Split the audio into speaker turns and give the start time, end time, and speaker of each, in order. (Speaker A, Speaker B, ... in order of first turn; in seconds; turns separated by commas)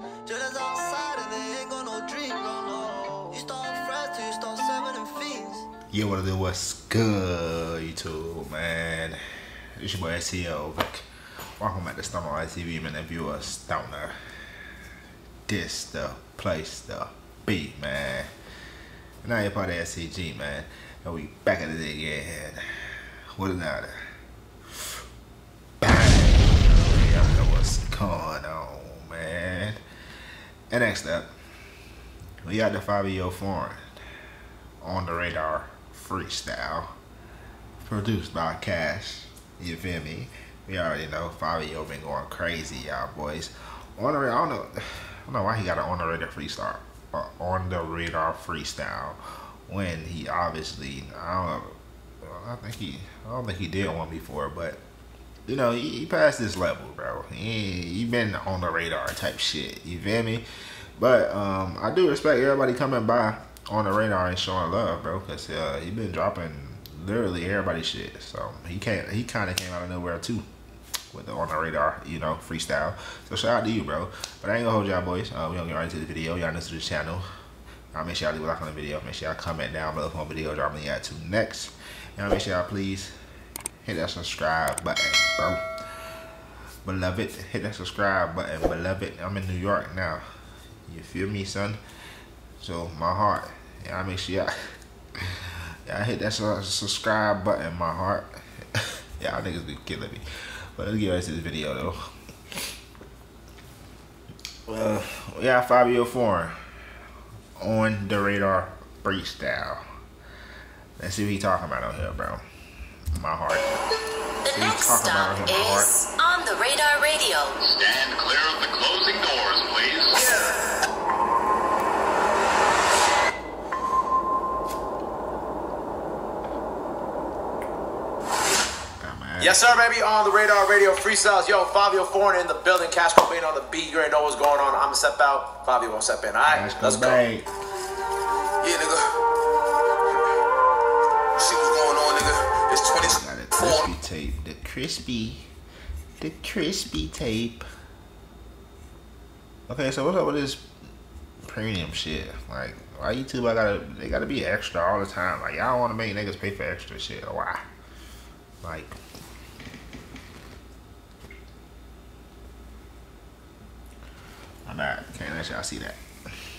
Speaker A: 0.2-5.7, Speaker B: 5.9-9.2, Speaker B: 9.8-11.0, Speaker B: 11.6-14.1, Speaker B: 15.5-18.3, Speaker B: 19.2-22.6, Speaker B: 23.3-24.0, Speaker B: 25.8-29.8, Speaker B: 30.7-31.3, Speaker B: 32.4-33.9, Speaker B: 34.8-36.9, Speaker B: 37.8-54.8, Speaker B: 55.5-60.4, Speaker B: 61.0-70.4, Speaker B: 71.1-77.2, Speaker B: 77.9-83.1, Speaker B: 83.8-85.6, Speaker B: 86.8-90.2, Speaker B: 90.9-91.8, Speaker B: 92.6-94.5, Speaker B: 95.2-100.2, Speaker B: 100.7-102.0, Speaker B: 104.7-106.5, Speaker B: 107.6-109.8, Speaker B: 111.0-112.4, Speaker B: 113.1-113.8, Speaker C: 114.4-117.6, Speaker B: 114.5-115.9, Speaker D: 117.6-120.4, Speaker B: 129.0-129.9, Speaker E: 129.4-137.2, Speaker B: 136.4-137.5, Speaker F: 138.6-139.2, Speaker F: 141.3-143.9, Speaker B: 142.9-145.5, Speaker B: 146.2-147.6, Speaker B: 149.7-150.7, Speaker B: 151.4-157.6, Speaker B: 158.6-158.9, Speaker B: 164.7-166.0